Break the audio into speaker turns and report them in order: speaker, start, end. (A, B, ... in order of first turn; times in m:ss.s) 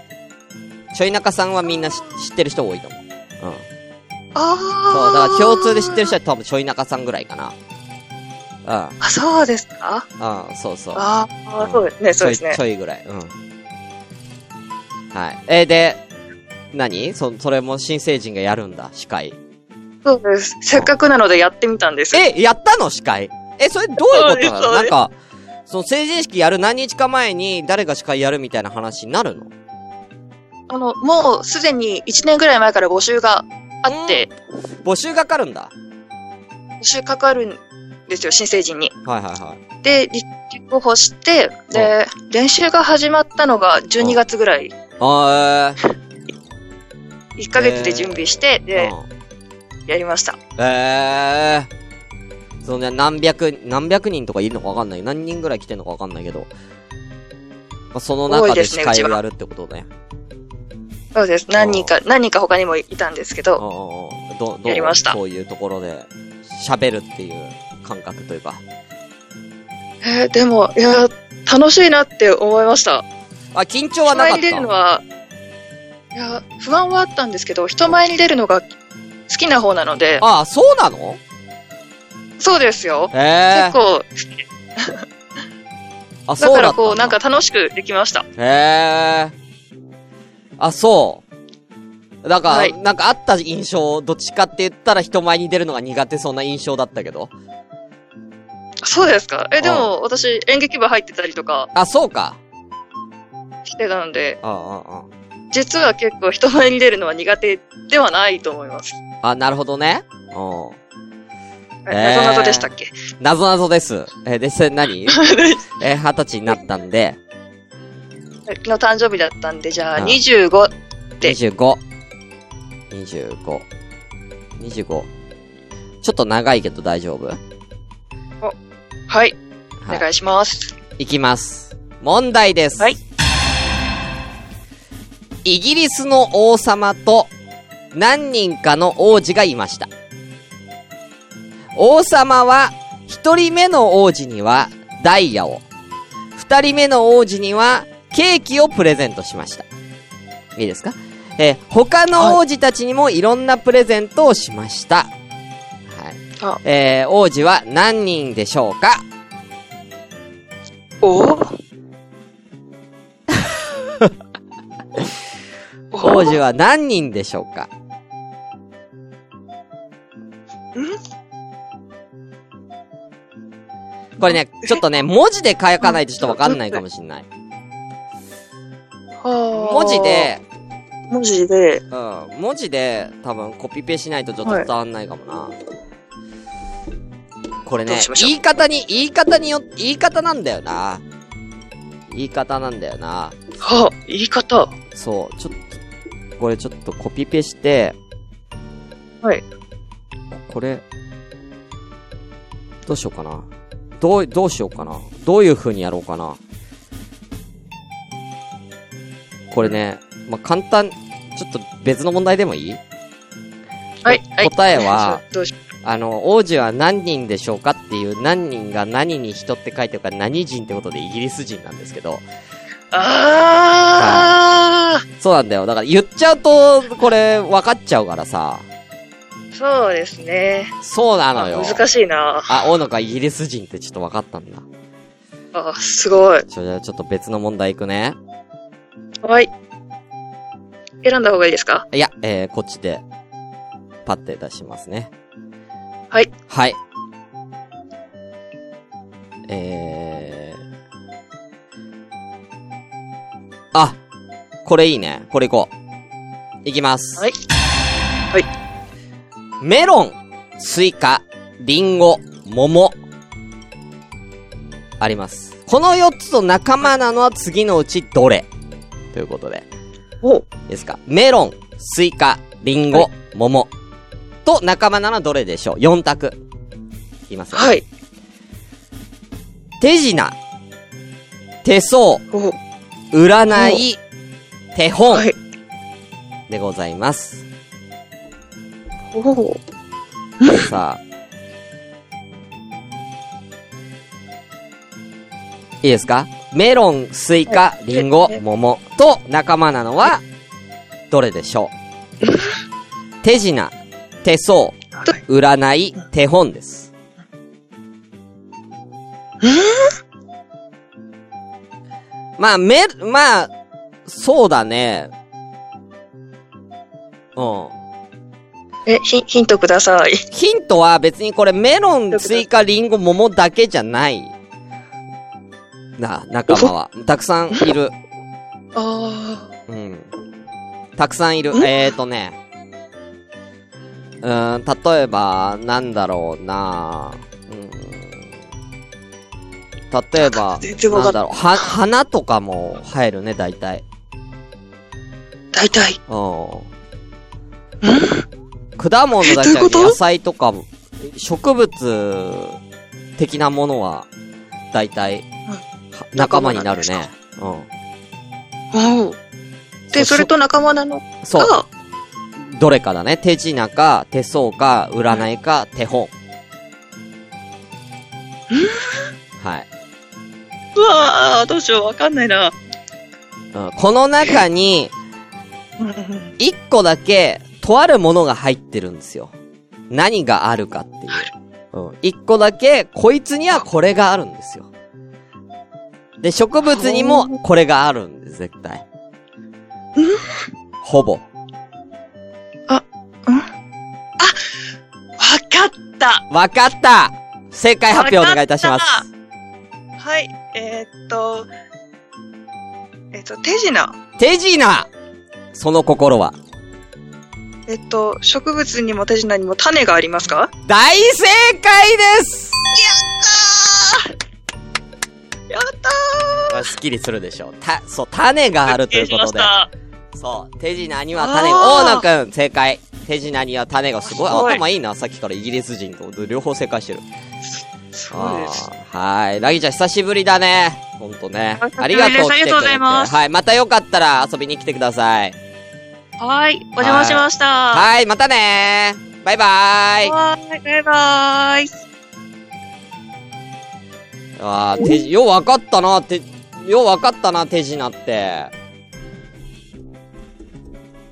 0:00.9-0:03.6 A
0:04.4-0:06.1 B
0:04.9-0:07.5 A
0:08.6-0:09.0 A
0:09.0-0:10.0 B
0:10.2-0:11.0 A
0:11.0-0:12.6 B
0:11.6-0:13.3 A
0:15.1-0:16.0 A
0:16.7-0:19.4 A
0:20.0-0:22.2 B
0:22.1-0:25.1 A
0:24.0-0:24.9 B
0:25.7-0:29.5 A
0:30.7-0:34.3 B
0:33.8-0:34.3 A
0:34.8-0:35.7 A
0:36.8-0:38.9 B
0:39.0-0:39.6 A
0:39.8-0:44.7 B
0:45.0-0:45.8 A
0:47.4-0:48.9 B
0:47.5-0:49.0 A
0:49.9-0:50.4 B
0:50.6-0:51.7 A
0:52.6-0:56.5 A
0:57.9-0:59.9 A
0:58.3-0:59.2 B
1:01.1-1:03.6 B
1:01.6-1:01.9 A
1:03.6-1:08.6 A
1:04.7-1:05.2 B
1:10.0-1:13.0 B
1:13.5-1:14.7 A
1:14.1-1:15.0 B
1:16.1-1:18.7 B
1:19.3-1:20.2 B
1:20.2-1:21.2 A
1:22.4-1:25.0 B
1:23.1-1:23.8 A
1:26.3-1:27.2 A
1:26.4-1:28.2 B
1:28.4-1:29.3 A
1:30.6-1:31.2 A
1:32.2-1:37.3 A
1:32.5-1:32.7 B
1:38.8-1:41.7 B
1:39.6-1:39.9 A
1:41.7-1:42.4 A
1:43.6-1:44.4 B
1:44.4-1:45.1 A
1:45.5-1:49.0 B
1:49.2-1:50.8 A
1:51.8-1:52.9 B
1:51.9-1:52.7 A
1:53.2-1:55.3 A
1:55.1-1:55.6 B
1:55.8-1:57.2 A
1:58.5-2:01.4 B
2:01.2-2:01.8 A
2:02.9-2:03.6 A
2:04.6-2:05.1 A
2:06.0-2:07.4 A
2:09.1-2:09.4 B
2:09.9-2:10.7 B
2:11.0-2:12.9 A
2:15.4-2:17.3 A
2:17.9-2:19.9 A
2:21.7-2:25.6 A
2:26.4-2:29.6 A
2:30.6-2:35.1 A
2:35.9-2:39.0 A
2:41.0-2:41.6 B
2:45.9-2:46.4 B
2:46.0-2:47.7 A
2:54.2-2:57.2 A
2:54.2-2:54.8 B
2:55.8-2:56.8 B
2:59.2-3:00.3 B
2:59.6-3:00.4 A
3:01.1-3:01.8 B
3:01.9-3:05.5 A
3:07.6-3:11.0 A
3:07.9-3:08.3 B
3:12.1-3:13.4 A
3:13.6-3:14.7 B
3:14.9-3:15.8 A
3:16.4-3:17.9 A
3:20.3-3:20.8 A
3:22.8-3:23.4 A
3:24.0-3:26.4 A
3:29.5-3:32.8 A
3:34.0-3:35.5 B
3:34.1-3:35.2 A
3:35.8-3:42.2 A
3:42.9-3:45.0 B
3:44.0-3:44.3 A
3:45.2-3:48.6 A
3:49.5-3:50.7 B
3:50.8-3:51.8 A
3:51.4-3:52.5 B
3:52.5-3:54.6 A
3:55.5-3:56.4 B
3:56.5-3:58.2 A
3:59.2-3:59.5 B
4:01.0-4:01.8 B
4:01.9-4:03.0 A
4:04.0-4:05.1 A
4:06.5-4:06.8 A
4:09.5-4:10.6 A
4:14.6-4:15.7 A
4:16.6-4:17.3 A
4:19.6-4:23.0 A
4:25.0-4:28.5 A
4:29.1-4:29.6 A
4:30.7-4:33.7 A
4:34.4-4:36.4 A
4:37.3-4:37.7 A
4:37.5-4:37.8 B
4:39.8-4:40.3 A
4:41.6-4:42.2 A
4:42.3-4:42.6 B
4:43.1-4:44.0 A
4:43.5-4:43.8 B
4:44.7-4:45.3 A
4:46.5-4:47.4 A
4:49.1-4:49.6 B
4:50.4-4:50.7 B
4:50.5-4:51.0 A
4:55.8-5:00.2 A
4:57.5-4:58.4 B
5:01.1-5:01.7 A
5:03.2-5:06.9 A
5:09.4-5:09.9 B
5:12.4-5:13.5 A
5:14.1-5:15.1 A
5:17.4-5:17.7 A
5:18.9-5:20.2 B
5:20.3-5:24.3 A
5:22.1-5:22.4 B
5:26.0-5:27.9 A
5:28.7-5:29.5 B
5:29.7-5:30.1 A
5:31.0-5:32.4 A
5:34.2-5:38.3 A
5:39.9-5:43.8 A
5:40.2-5:41.7 B
5:45.5-5:46.0 B
5:46.1-5:46.7 A
5:47.8-5:48.2 B
5:48.8-5:52.6 A
5:49.2-5:50.0 B
5:53.2-5:54.1 A
5:54.7-5:55.2 A
5:56.0-5:57.7 A
5:56.2-5:57.0 B
5:58.7-5:59.2 B
5:59.9-6:00.3 A
5:59.9-6:01.6 B
6:01.2-6:01.5 A
6:02.4-6:06.1 A
6:08.5-6:08.9 B
6:09.4-6:09.7 A
6:10.8-6:12.5 B
6:13.5-6:14.9 A
6:15.8-6:16.3 B
6:16.4-6:19.3 A
6:19.9-6:24.7 A
6:26.2-6:28.8 A
6:26.7-6:27.4 B
6:30.0-6:30.3 B
6:30.8-6:31.2 A
6:32.7-6:33.5 B
6:35.2-6:36.2 B
6:36.3-6:39.0 A
6:37.9-6:39.0 B
6:40.0-6:41.5 B
6:43.1-6:43.9 B
6:44.2-6:44.9 A
6:45.5-6:46.3 A
6:47.7-6:50.5 B
6:50.7-6:52.6 A
6:52.7-6:54.1 B
6:55.5-6:56.6 B
6:56.5-6:59.5 A
6:58.7-6:59.7 B
7:00.1-7:07.0 A
7:01.2-7:02.0 B
7:04.1-7:04.6 B
7:08.0-7:08.6 B
7:08.1-7:15.4 A
7:11.6-7:13.1 B
7:16.2-7:17.9 B
7:16.8-7:20.1 A
7:20.0-7:21.7 B
7:24.4-7:28.5 A